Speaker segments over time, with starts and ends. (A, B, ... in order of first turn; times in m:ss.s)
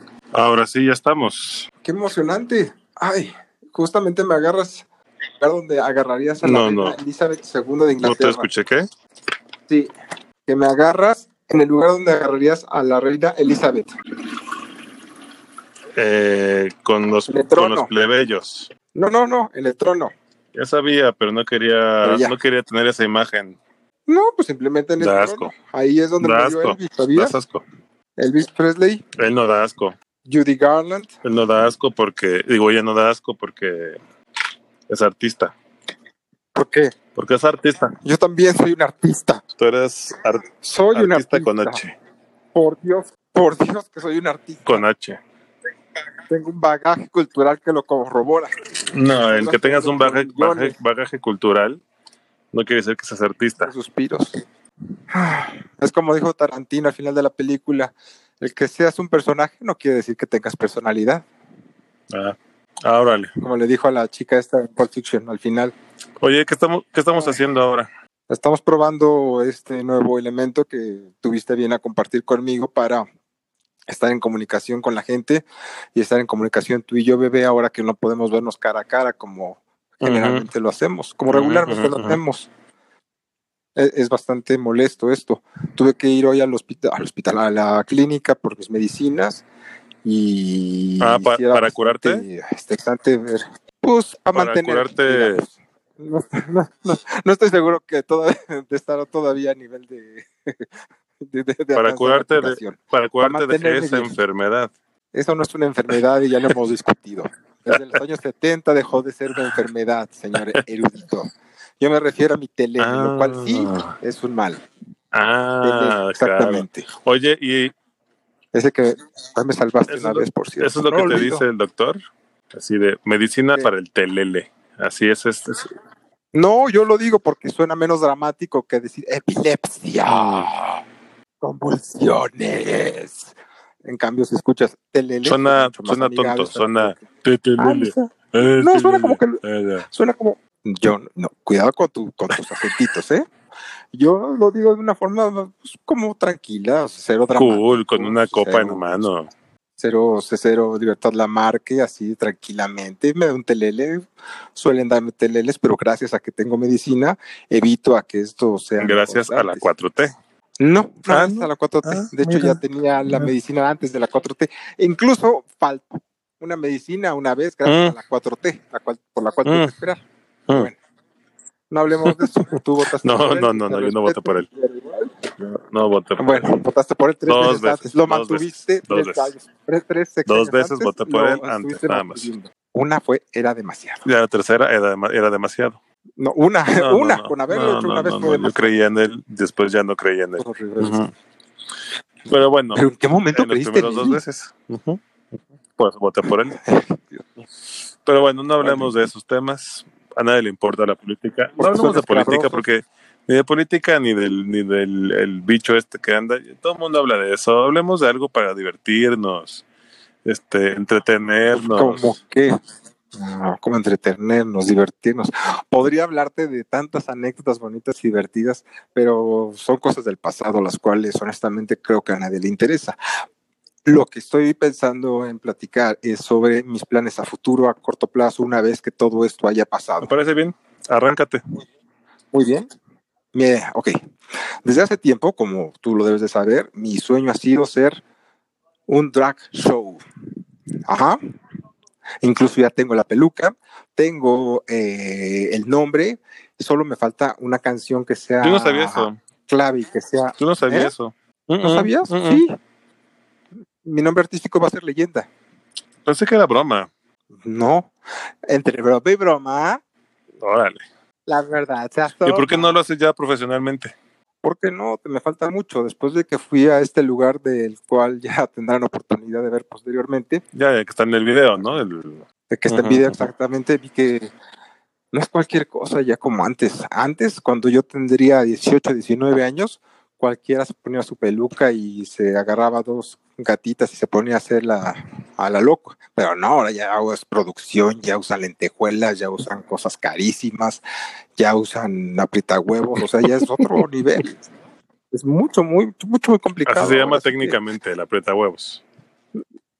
0:00.3-0:01.7 A
0:01.8-0:04.8 B
0:05.4-0:08.5 B
0:06.4-0:07.0 A
0:08.0-0:08.8 A
0:10.5-0:13.9 B
0:16.0-0:18.7 A
0:17.3-0:17.9 B
0:18.9-0:20.1 B
0:20.5-0:23.6 A
0:22.0-0:22.4 B
0:24.1-0:27.4 B
0:25.0-0:25.5 A
0:26.2-0:27.6 A
0:28.2-0:29.0 B
0:29.2-0:30.0 A
0:30.2-0:31.1 B
0:31.2-0:34.0 A
0:34.9-0:35.6 A
0:36.5-0:36.9 B
0:37.2-0:37.9 A
0:38.0-0:39.4 B
0:39.6-0:41.9 A
0:40.6-0:41.8 B
0:42.5-0:44.8 B
0:44.7-0:45.2 A
0:46.3-0:48.5 B
0:48.9-0:51.8 A
0:49.3-0:50.8 B
0:52.5-0:53.7 A
0:53.6-0:54.4 B
0:55.1-1:01.3 B
1:02.1-1:03.3 A
1:03.4-1:05.8 B
1:06.2-1:07.9 A
1:08.3-1:13.1 B
1:13.9-1:22.5 B
1:20.0-1:20.5 A
1:21.3-1:22.2 A
1:23.8-1:29.4 B
1:30.0-1:40.7 B
1:31.0-1:32.3 A
1:34.3-1:35.4 A
1:41.2-1:44.2 B
1:41.8-1:44.7 A
1:45.1-1:54.6 B
1:49.3-1:49.6 A
1:50.3-1:50.6 A
1:52.8-1:53.9 A
1:55.1-1:57.7 A
1:55.6-1:56.9 B
1:58.5-2:01.4 B
1:59.9-2:02.0 A
2:02.5-2:05.7 A
2:06.3-2:10.5 B
2:10.1-2:10.8 A
2:11.4-2:13.3 B
2:13.8-2:17.0 B
2:15.2-2:19.9 A
2:17.6-2:23.3 B
2:23.9-2:29.1 B
2:27.4-2:29.3 A
2:29.8-2:39.7 B
2:38.8-2:40.1 A
2:40.6-2:50.8 B
2:41.1-2:43.3 A
2:47.6-2:48.0 A
2:49.4-2:49.8 A
2:51.7-2:55.3 B
2:53.0-2:54.5 A
2:55.7-2:56.5 A
2:56.2-3:04.0 B
2:57.3-2:59.3 A
3:00.3-3:02.3 A
3:04.0-3:05.8 A
3:06.2-3:08.8 B
3:06.8-3:11.1 A
3:10.4-3:11.1 B
3:12.3-3:15.0 A
3:12.7-3:14.2 B
3:15.8-3:16.6 A
3:16.6-3:17.3 B
3:18.0-3:29.6 A
3:18.6-3:19.1 B
3:21.6-3:22.7 B
3:30.2-3:32.2 A
3:31.5-3:32.6 B
3:33.2-3:43.0 B
3:43.9-3:50.1 B
3:50.0-3:51.4 A
3:52.3-3:52.7 B
3:53.3-3:53.9 B
3:54.6-3:58.0 B
3:58.9-4:00.0 B
4:00.9-4:01.2 B
4:02.2-4:10.9 B
4:08.4-4:09.2 A
4:10.4-4:12.4 A
4:11.6-4:12.5 B
4:13.8-4:15.3 B
4:16.0-4:16.9 A
4:17.4-4:17.9 B
4:18.5-4:19.8 B
4:20.4-4:20.8 A
4:21.3-4:22.8 B
4:22.2-4:24.0 A
4:24.4-4:30.4 B
4:30.5-4:33.3 A
4:32.5-4:34.3 B
4:35.1-4:50.8 B
4:51.4-4:54.4 B
4:53.2-4:53.8 A
4:55.1-4:57.6 B
4:56.6-4:58.8 A